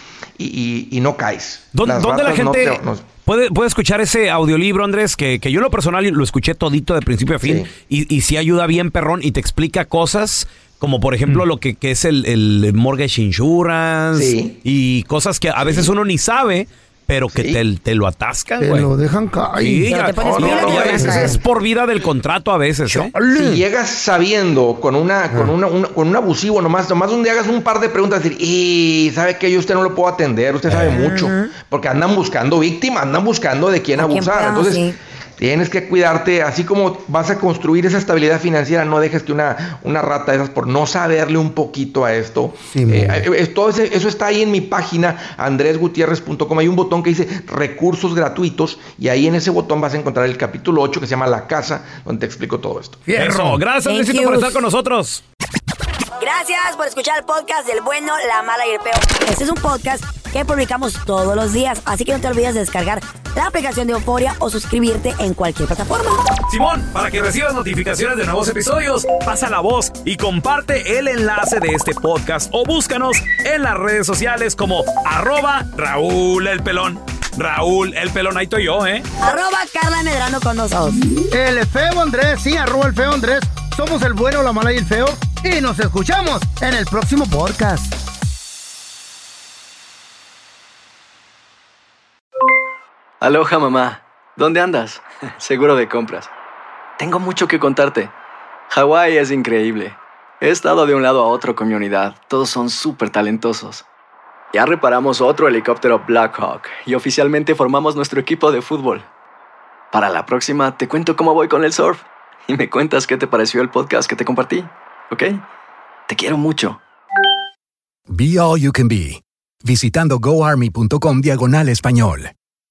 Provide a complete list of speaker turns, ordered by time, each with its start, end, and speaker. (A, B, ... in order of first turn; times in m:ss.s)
0:00.4-0:03.0 A
0:01.7-0:18.9 B
0:07.4-0:07.7 A
0:14.1-0:14.6 A
0:15.6-0:15.9 A
0:17.3-0:17.6 A
0:18.6-0:20.0 C
0:19.6-0:23.1 B
0:19.9-0:21.4 D
0:20.2-0:21.0 A
0:20.7-0:21.4 C
0:22.8-0:23.6 C
0:23.3-0:53.0 A
0:30.7-0:30.9 B
0:30.9-0:31.5 D
0:34.0-0:34.9 D
0:42.7-0:43.2 C
0:53.0-0:53.6 C
0:53.1-0:55.2 B
0:53.8-0:54.6 D
0:56.2-1:06.3 D
1:06.4-1:19.1 B
1:19.2-1:21.0 D
1:21.2-1:27.9 C
1:33.2-1:36.3 E
1:37.0-1:38.1 E
1:38.7-1:43.8 E
1:44.5-1:49.0 E
1:49.9-1:55.4 E
1:56.1-1:56.8 E
1:58.1-2:02.3 F